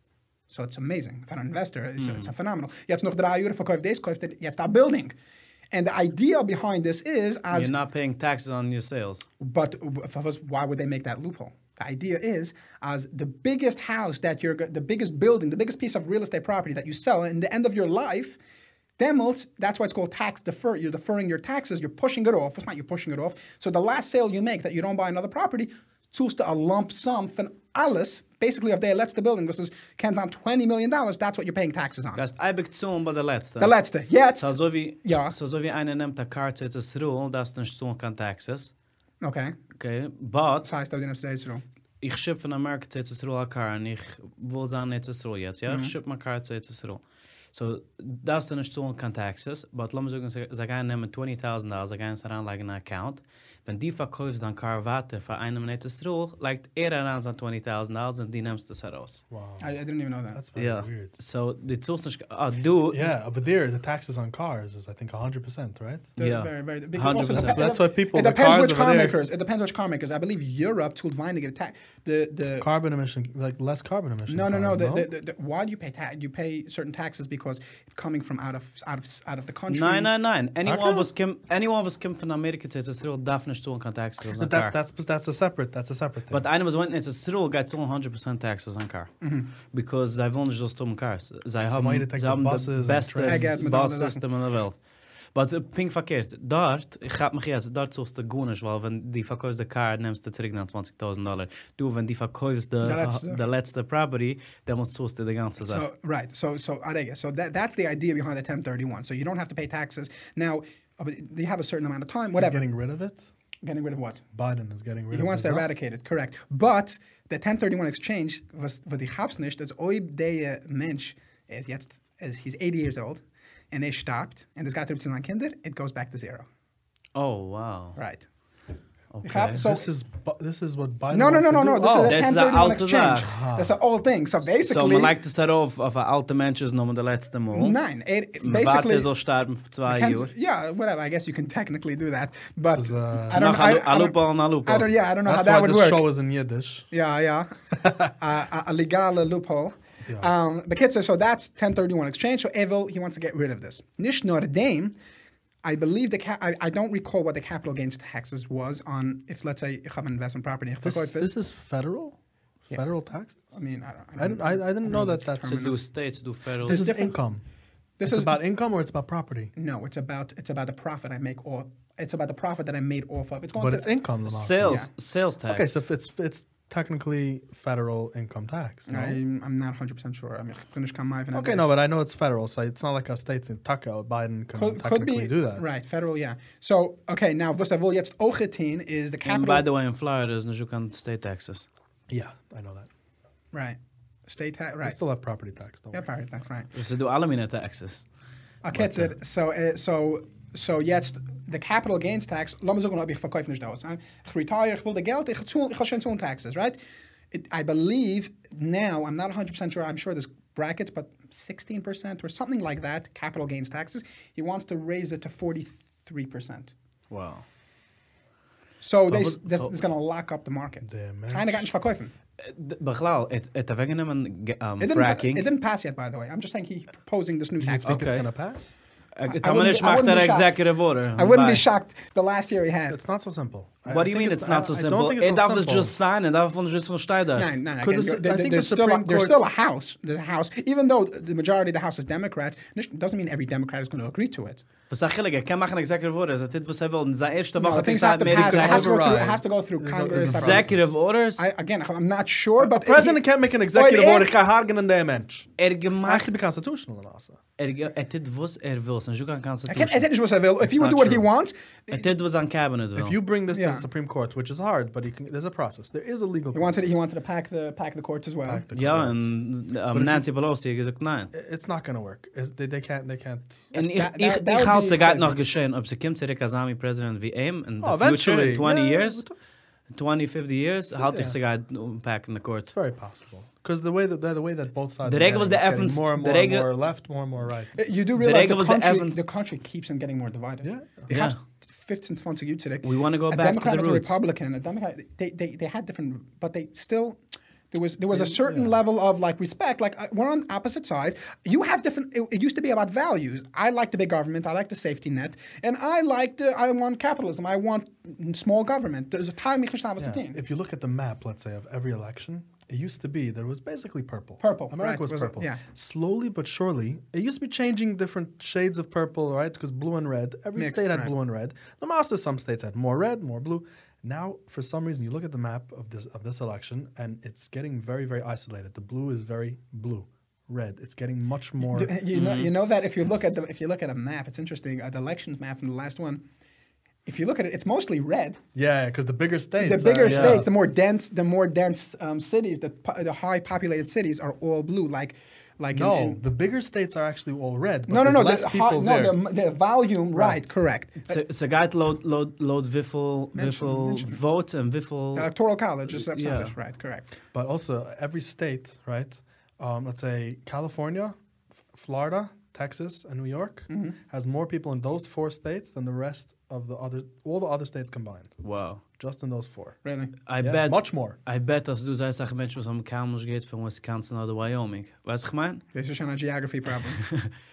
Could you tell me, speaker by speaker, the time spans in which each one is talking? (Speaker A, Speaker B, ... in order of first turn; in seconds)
Speaker A: 0.5-5.1, 5.7-7.7, 9.4-18.4, 19.0-32.2, 33.6-35.4, 39.2-39.5, 40.6-41.6, 45.7-45.9, 59.6-60.4, 66.2-72.7, 74.3-80.1, 89.2-89.5, 93.2-94.2, 102.8-103.4, 105.6-112.7, 113.6-114.2, 115.1-126.5, 128.0-128.3, 129.2-129.9, 131.1-135.2, 137.5-139.1, 139.9-146.1, 146.9-147.6, 148.2-154.9, 155.6-161.3, 163.5-165.8, 166.6-167.2, 168.0-168.4, 169.6-174.0, 178.9-181.7, 184.6-189.7, 193.5-195.0, 195.9-196.7, 198.6-206.8, 207.3-216.7, 218.8-222.1, 224.8-228.1, 229.3-230.6, 231.2-233.0, 237.3-244.6, 247.6-254.3, 259.7-262.1, 263.5-263.9, 266.5-268.6, 273.7-275.4, 287.8-297.2, 297.7-310.4, 314.4-315.6, 320.6-321.1, 331.6-336.2, 337.1-338.4, 339.6-346.2, 347.9-351.2, 353.4-354.2, 355.1-357.1, 363.7-364.0, 369.8-370.1, 375.7-377.0
Speaker B: 2.0-2.3, 7.5-9.3, 32.2-33.8, 34.4-38.7, 39.8-40.7, 42.0-47.0, 47.5-59.2, 60.6-63.0, 66.2-67.7, 79.7-84.8, 86.3-89.1, 89.7-94.8, 95.3-105.9, 127.2-128.0, 129.1-129.6, 132.1-133.3, 134.6-137.8, 138.4-140.3, 143.3-144.9, 165.4-166.9, 174.3-175.8, 189.2-191.7, 196.7-198.1, 217.1-217.4, 219.1-219.8, 222.4-225.5, 227.8-228.3, 229.2-231.7, 233.9-237.5, 244.9-248.9, 250.2-251.5, 255.6-256.3, 257.6-260.1, 261.9-263.2, 268.7-271.3, 273.7-279.2, 279.9-282.7, 285.1-286.7, 288.2-289.2, 291.1-291.4, 292.8-294.2, 332.1-332.7, 340.1-340.5, 351.1-355.3, 355.9-356.5, 368.4-368.8, 370.3-375.6, 377.0-377.3
Speaker C: 59.3-59.7, 60.3-61.1, 62.9-66.1, 67.3-69.2, 72.6-75.1, 80.7-81.1, 84.3-86.4, 91.7-93.7, 112.3-113.2, 114.3-115.7, 129.6-132.2, 133.2-133.8, 142.7-143.5, 145.3-146.9, 147.8-148.1, 160.8-162.2, 162.7-163.4, 164.2-165.7, 166.6-167.4, 168.0-169.5, 173.6-174.9, 175.5-179.2, 181.3-185.7, 192.1-192.9, 194.8-196.0, 220.8-221.7, 227.6-228.7, 232.9-235.9, 237.8-239.4, 248.2-250.9, 252.6-255.5, 256.1-257.4, 260.6-261.3, 263.0-267.0, 268.4-269.3, 269.9-270.3, 271.3-273.7, 277.8-279.3, 281.0-281.4, 282.7-287.8, 290.6-291.2, 298.1-298.8, 310.0-331.9, 338.6-340.5, 345.7-349.2, 350.1-350.5, 357.3-361.2, 361.7-368.4, 369.0-369.8, 370.4-371.2